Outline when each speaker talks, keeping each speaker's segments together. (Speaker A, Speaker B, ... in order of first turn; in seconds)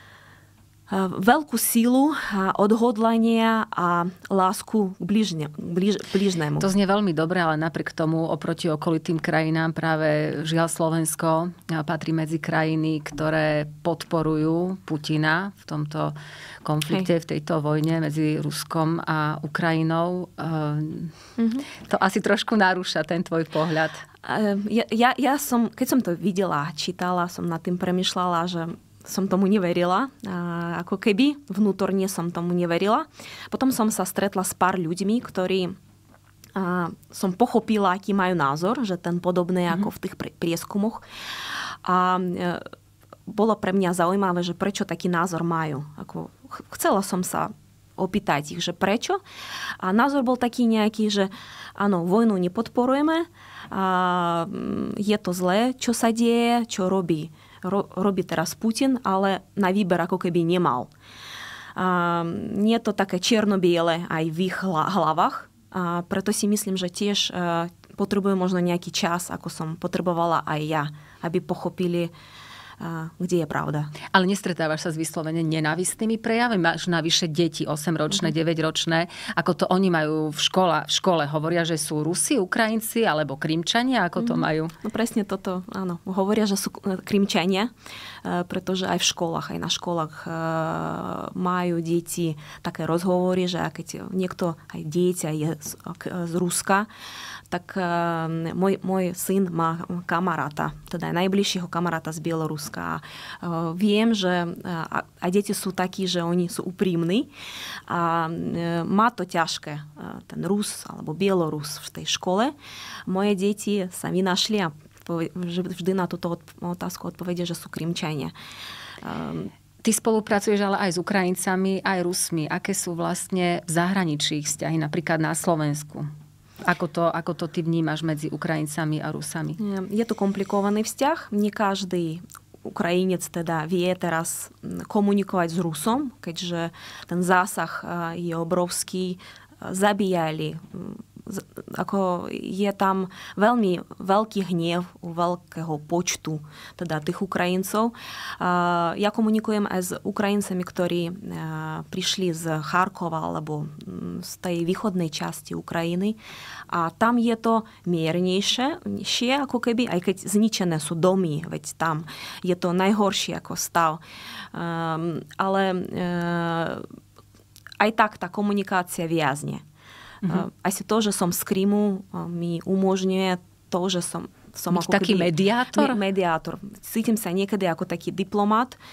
Speaker A: 0.9-6.7, 21.4-21.7, 24.2-35.7, 36.5-41.0, 41.8-42.7, 43.3-49.2, 49.8-60.9, 61.8-72.1, 72.8-73.9, 84.2-87.7, 88.2-96.9, 97.5-107.3, 107.9-112.5, 113.1-118.3, 119.0-119.5, 129.6-156.2, 156.7-164.0, 164.5-166.9, 167.8-169.6, 170.2-178.8
Speaker B: 6.6-21.1, 21.7-24.0, 74.1-84.7, 119.8-126.1, 126.6-129.6, 174.7-176.0